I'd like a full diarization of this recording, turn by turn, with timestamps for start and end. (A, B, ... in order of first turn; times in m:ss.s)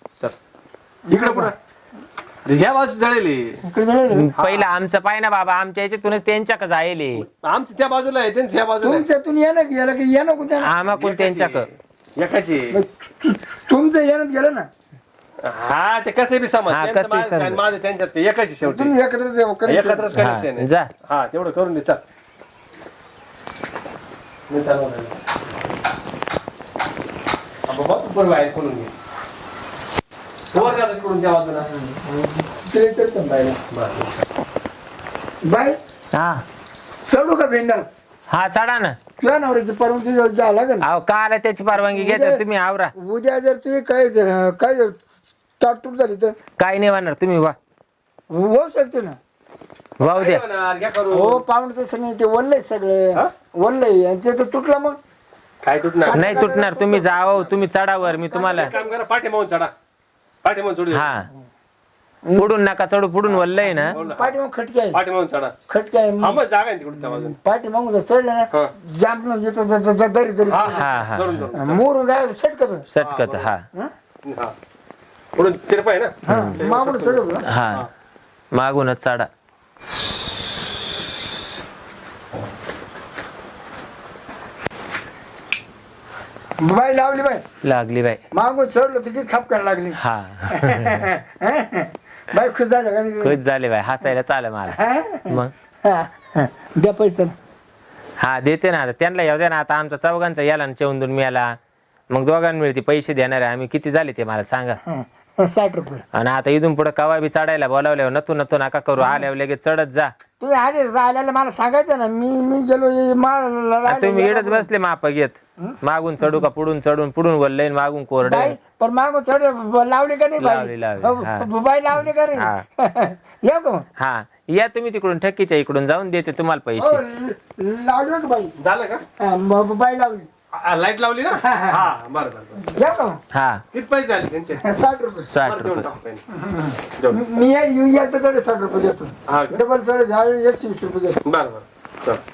0:01.1-0:01.5 A
0:01.1-0:01.5 B
0:02.4-0:03.6 B
0:03.6-0:04.3 A
0:04.1-0:07.2 C
0:04.4-0:04.7 B
0:07.2-0:09.0 B
0:08.8-0:10.7 A
0:10.6-0:11.7 C
0:10.9-0:12.8 B
0:12.7-0:14.7 A
0:15.4-0:18.9 B
0:16.7-0:17.6 C
0:18.6-0:20.1 A
0:19.7-0:22.0 B
0:20.1-0:20.9 C
0:24.5-0:25.2 B
0:27.7-0:28.9 B
0:30.5-0:31.7 B
0:31.8-0:33.6 A
0:33.7-0:34.2 B
0:35.4-0:35.8 A
0:36.1-0:36.4 C
0:37.1-0:37.9 A
0:38.3-0:39.0 C
0:39.2-0:40.8 A
0:40.8-0:42.9 C
0:41.7-0:42.4 A
0:43.0-0:45.0 A
0:45.6-0:46.3 A
0:46.6-0:47.6 C
0:48.3-0:49.2 A
0:50.0-0:51.4 B
0:50.0-0:50.4 C
0:51.1-0:55.0 A
0:55.6-0:56.2 B
0:56.0-0:58.9 A
0:56.1-0:58.7 C
0:58.4-0:59.7 B
1:00.4-1:01.2 B
1:00.9-1:01.3 C
1:02.4-1:03.9 C
1:03.3-1:04.3 B
1:03.9-1:05.0 A
1:04.9-1:05.5 B
1:05.7-1:06.4 A
1:06.2-1:07.4 B
1:07.0-1:10.9 A
1:10.5-1:11.8 B
1:10.7-1:11.4 C
1:11.5-1:12.9 A
1:12.9-1:13.6 C
1:13.0-1:13.5 B
1:14.2-1:14.5 B
1:15.4-1:17.9 B
1:16.2-1:17.4 A
1:16.3-1:16.6 C
1:17.4-1:17.8 C
1:18.5-1:19.3 C
1:26.6-1:27.4 A
1:27.6-1:28.2 C
1:28.3-1:33.4 A
1:30.0-1:31.0 C
1:33.2-1:34.8 C
1:34.7-1:37.3 A
1:38.2-1:41.5 C
1:42.1-1:44.8 C
1:44.8-1:46.0 A
1:46.1-1:50.1 C
1:49.0-1:49.2 A
1:50.4-1:54.7 A
1:53.9-1:58.6 C
1:55.6-1:56.4 A
1:58.2-2:03.9 A
2:00.4-2:01.5 C
2:02.3-2:02.6 C
2:04.0-2:07.0 C
2:06.8-2:08.5 A
2:08.6-2:09.0 B
2:09.2-2:10.3 A
2:10.5-2:12.6 B
2:11.4-2:11.8 A
2:12.6-2:13.2 A
2:13.3-2:13.6 C
2:13.7-2:14.6 B
2:14.6-2:15.3 A
2:15.3-2:15.9 C
2:15.4-2:16.2 B
2:16.3-2:21.2 A
2:19.3-2:19.6 B
2:21.2-2:22.2 B